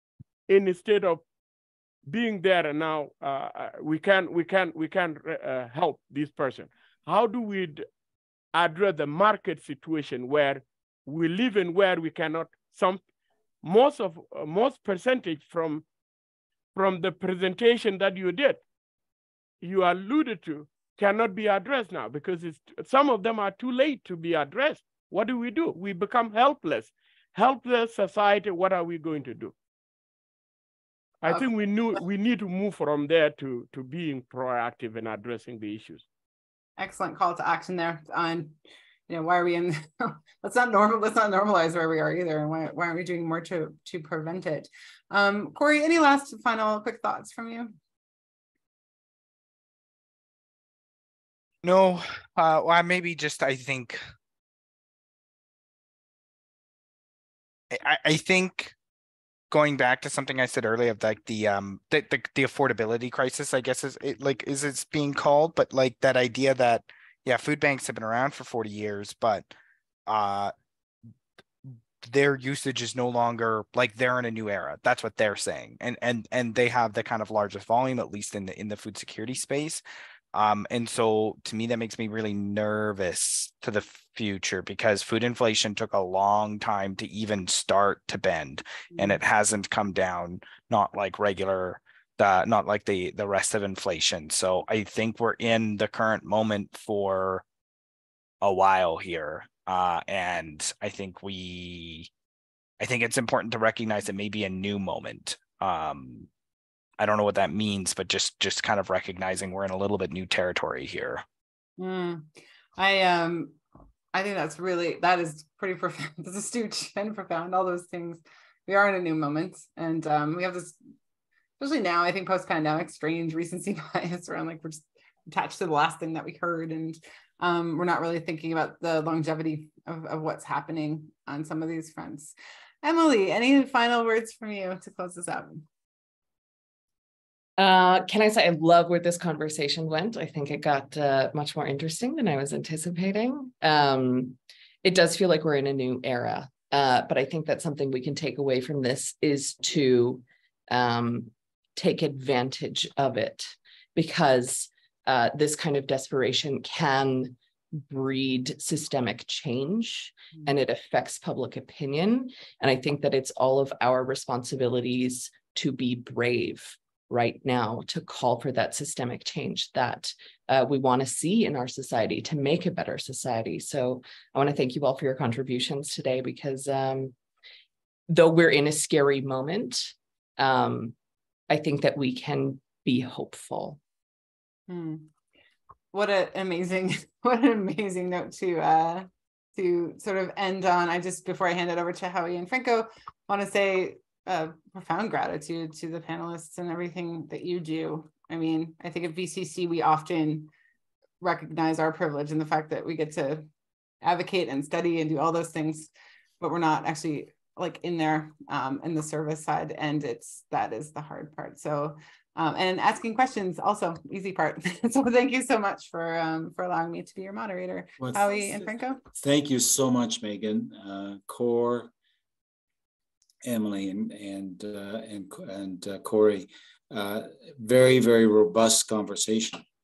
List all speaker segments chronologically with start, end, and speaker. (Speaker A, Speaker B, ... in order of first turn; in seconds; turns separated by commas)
Speaker A: 0.5-1.2, Speaker A: 2.0-7.8, Speaker A: 8.5-13.0, Speaker A: 13.6-15.8, Speaker A: 16.7-18.6, Speaker A: 19.6-29.5, Speaker A: 31.2-36.0, Speaker B: 36.8-38.6, Speaker B: 39.1-47.8, Speaker C: 51.6-54.0, Speaker C: 57.7-58.7, Speaker C: 59.5-69.5, Speaker C: 70.1-70.5, Speaker C: 72.0-79.8, Speaker C: 80.3-97.4, Speaker B: 88.9-89.2, Speaker C: 98.4-102.1, Speaker C: 102.8-106.3, Speaker C: 107.0-111.2, Speaker B: 111.8-113.6, Speaker B: 114.1-120.8, Speaker B: 121.6-135.6, Speaker D: 137.6-177.1, Speaker D: 178.1-180.9, Speaker D: 181.5-183.8, Speaker B: 184.7-185.1, Speaker B: 185.9-200.5, Speaker B: 201.2-203.5, Speaker B: 204.0-219.0, Speaker E: 218.0-221.9, Speaker E: 223.4-229.6